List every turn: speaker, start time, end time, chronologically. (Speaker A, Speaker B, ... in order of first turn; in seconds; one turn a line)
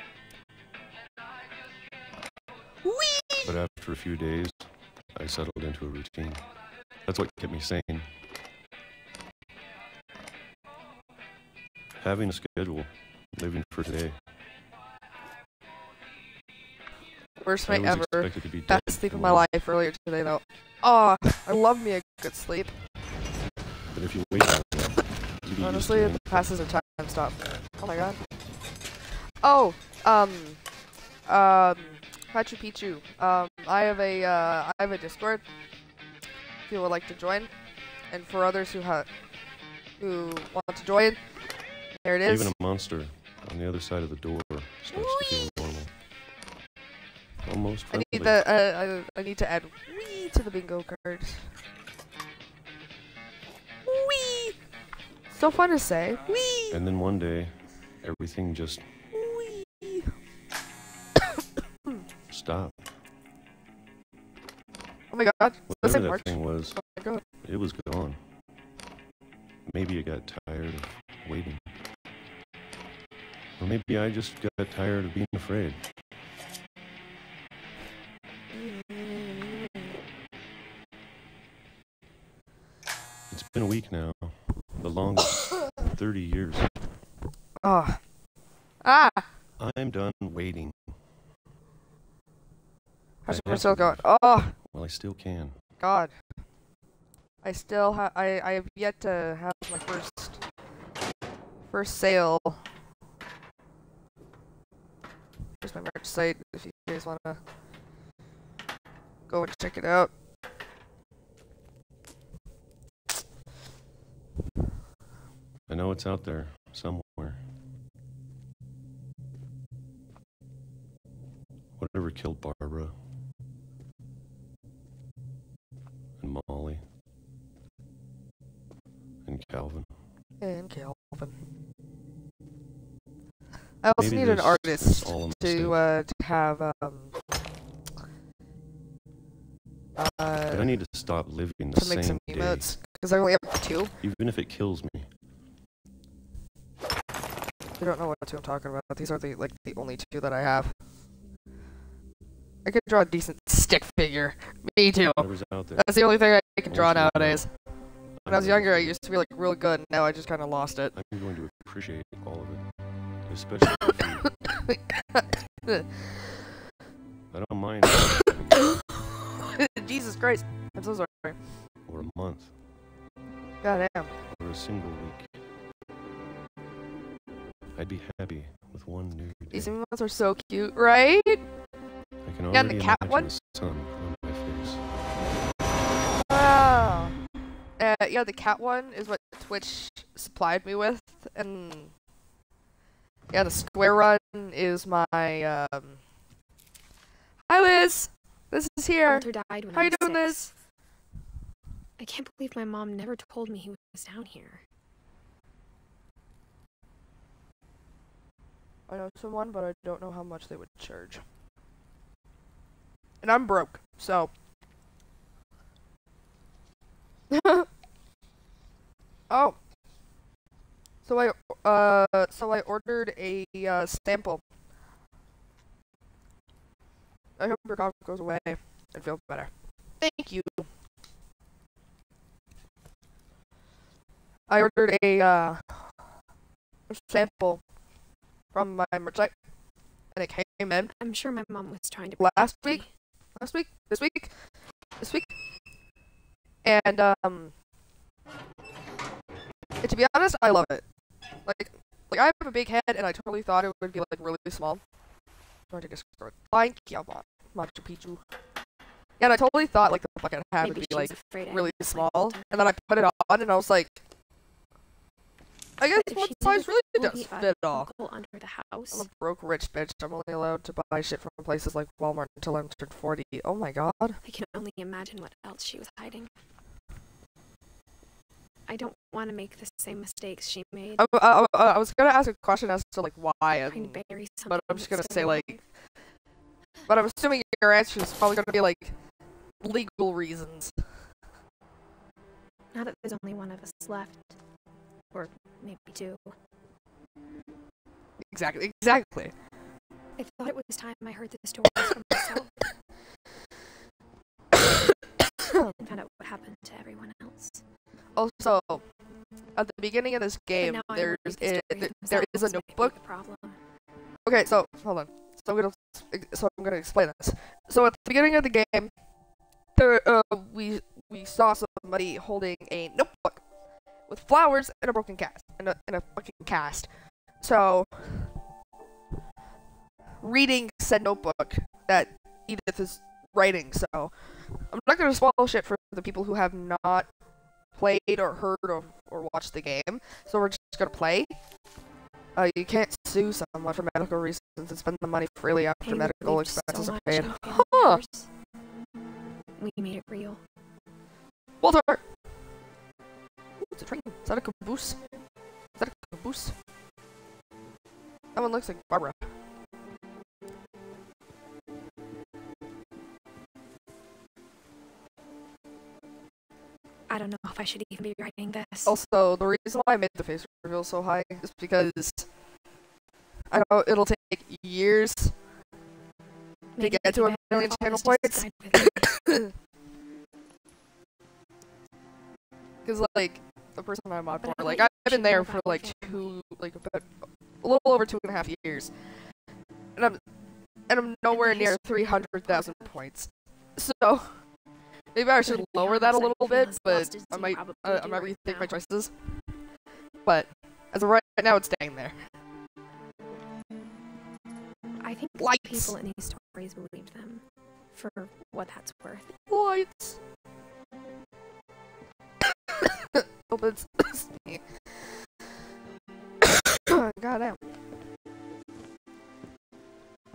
Speaker A: 2.8-3.5
Speaker B: 3.4-6.5
Speaker B: 7.0-8.1
Speaker B: 12.0-14.2
Speaker A: 17.4-22.7
Speaker B: 17.6-19.5
Speaker B: 23.9-26.5
Speaker A: 25.6-28.2
Speaker A: 29.4-30.6
Speaker A: 31.3-35.4
Speaker A: 36.7-37.5
Speaker A: 38.1-39.1
Speaker A: 40.0-41.2
Speaker A: 42.0-42.5
Speaker B: 42.2-45.9
Speaker A: 44.9-45.6
Speaker B: 47.4-48.4
Speaker A: 47.9-51.5
Speaker A: 53.9-54.5
Speaker A: 55.3-56.8
Speaker B: 56.7-58.9
Speaker A: 59.1-60.1
Speaker B: 62.3-62.9
Speaker A: 65.1-67.2
Speaker B: 65.7-66.8
Speaker B: 67.4-68.2
Speaker B: 69.7-71.7
Speaker B: 73.6-75.8
Speaker A: 78.5-79.8
Speaker B: 83.3-86.7
Speaker A: 87.6-88.0
Speaker A: 88.8-89.2
Speaker B: 89.6-91.0
Speaker A: 93.2-94.5
Speaker B: 93.3-95.6
Speaker A: 95.8-96.1
Speaker A: 97.4-100.4
Speaker A: 101.7-102.6
Speaker A: 105.6-107.4
Speaker A: 109.3-110.1
Speaker B: 115.7-117.4
Speaker B: 121.7-123.0
Speaker B: 126.2-126.8
Speaker B: 129.2-129.9
Speaker A: 130.4-131.3
Speaker A: 133.8-137.1
Speaker B: 133.9-135.8
Speaker A: 139.9-140.7
Speaker B: 140.4-142.7
Speaker A: 141.7-143.9
Speaker B: 144.0-145.1
Speaker A: 147.8-150.7
Speaker A: 152.6-157.5
Speaker B: 155.0-156.1
Speaker B: 156.7-157.5
Speaker B: 158.2-159.0
Speaker A: 158.3-160.9
Speaker B: 160.9-162.6
Speaker B: 163.3-164.3
Speaker A: 164.5-165.9
Speaker B: 167.3-168.8
Speaker A: 167.9-168.8
Speaker A: 169.4-171.3
Speaker B: 171.8-172.5
Speaker A: 173.6-174.1
Speaker B: 174.3-175.4
Speaker B: 177.7-179.7
Speaker A: 179.5-181.4
Speaker B: 182.2-184.8
Speaker A: 182.5-183.3
Speaker A: 186.1-187.1
Speaker A: 187.8-191.9
Speaker A: 193.3-196.0
Speaker A: 197.5-200.5
Speaker C: 199.1-200.5
Speaker C: 202.0-204.6
Speaker A: 208.9-211.2
Speaker A: 213.2-214.3
Speaker A: 217.3-217.7
Speaker A: 219.3-219.6
Speaker A: 221.1-224.4
Speaker A: 227.4-230.7
Speaker A: 234.5-235.8
Speaker A: 236.9-237.6
Speaker A: 238.5-239.3
Speaker A: 240.1-240.9
Speaker C: 240.9-242.9
Speaker A: 242.2-242.8
Speaker A: 243.4-244.3
Speaker A: 245.0-245.3
Speaker A: 246.6-247.5
Speaker A: 249.8-250.8
Speaker A: 251.4-254.8
Speaker A: 255.7-258.2
Speaker A: 259.2-264.0
Speaker C: 260.6-262.6
Speaker A: 265.8-267.9
Speaker C: 265.9-269.1
Speaker A: 268.9-274.2
Speaker C: 274.2-276.3
Speaker C: 278.7-281.1
Speaker A: 281.0-285.6
Speaker C: 283.7-285.6
Speaker A: 286.9-288.9
Speaker A: 289.6-290.7
Speaker C: 292.7-294.4
Speaker C: 295.1-296.3
Speaker A: 298.3-299.3
Speaker C: 300.2-302.5
Speaker A: 305.4-305.7
Speaker C: 305.7-307.6
Speaker A: 308.1-308.8
Speaker A: 309.6-312.9
Speaker C: 310.6-313.6
Speaker A: 314.2-318.9
Speaker A: 319.8-323.4
Speaker A: 324.1-326.9
Speaker A: 327.4-328.3
Speaker A: 330.2-334.1
Speaker A: 334.7-337.1
Speaker A: 337.7-341.3
Speaker A: 342.4-348.0
Speaker C: 345.8-348.3
Speaker C: 349.6-350.4
Speaker A: 351.6-352.0
Speaker A: 353.7-355.0
Speaker A: 355.8-356.5
Speaker A: 358.3-359.2
Speaker C: 367.1-368.9
Speaker A: 368.9-372.2
Speaker A: 373.5-375.3
Speaker C: 376.8-379.2
Speaker A: 376.8-379.5
Speaker A: 382.8-387.1
Speaker C: 384.4-386.4
Speaker A: 387.6-388.9
Speaker A: 390.9-394.3
Speaker C: 391.3-392.9
Speaker A: 395.1-399.1
Speaker C: 395.4-398.7
Speaker A: 400.2-402.1
Speaker C: 405.0-409.4
Speaker A: 405.4-405.9
Speaker A: 409.5-410.2
Speaker A: 412.8-414.6
Speaker A: 416.4-417.6